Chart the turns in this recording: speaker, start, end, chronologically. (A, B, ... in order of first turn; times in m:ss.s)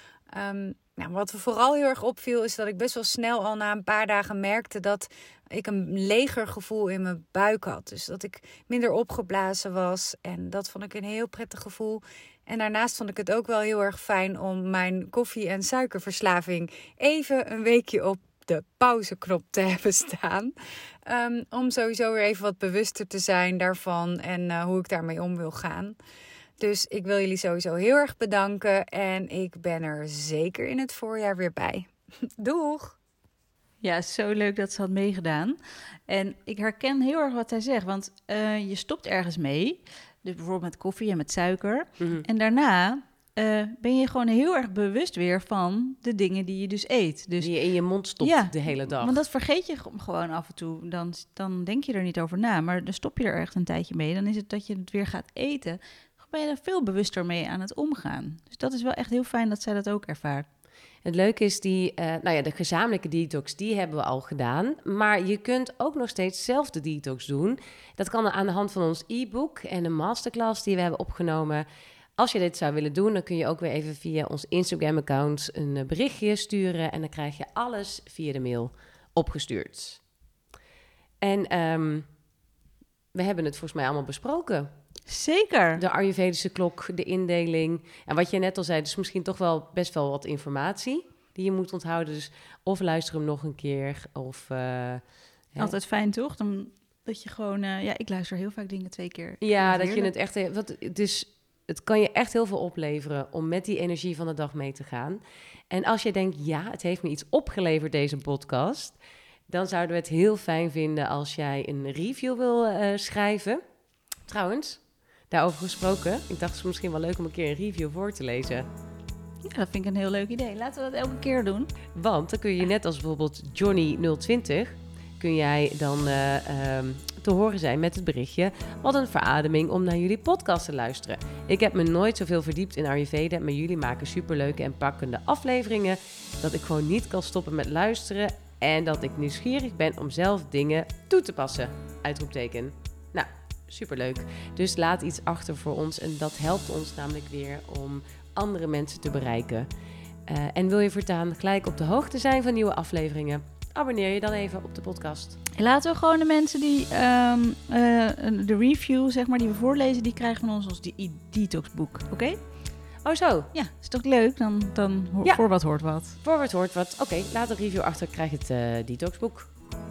0:00.3-0:20.5 A
0:21.0-0:26.0 A
0:26.6-0:33.0 A
0:33.8-0:47.5 B
0:42.0-0:42.2 C
0:47.4-0:49.2 C
0:48.2-1:00.4 B
1:01.0-1:11.6 C
1:12.2-1:20.0 C
1:21.2-1:22.1 C
1:23.1-1:24.7 C
1:25.1-1:25.8 B
1:25.8-1:35.7 C
1:35.6-1:40.1 B
1:39.4-1:49.0 C
1:49.5-1:53.6 C
1:54.3-1:58.6 C
1:59.4-2:01.7 B
2:01.9-2:29.7 C
2:30.2-2:35.4 C
2:35.6-2:42.4 B
2:43.0-2:43.5 C
2:43.5-2:46.2 B
2:46.2-2:49.5 C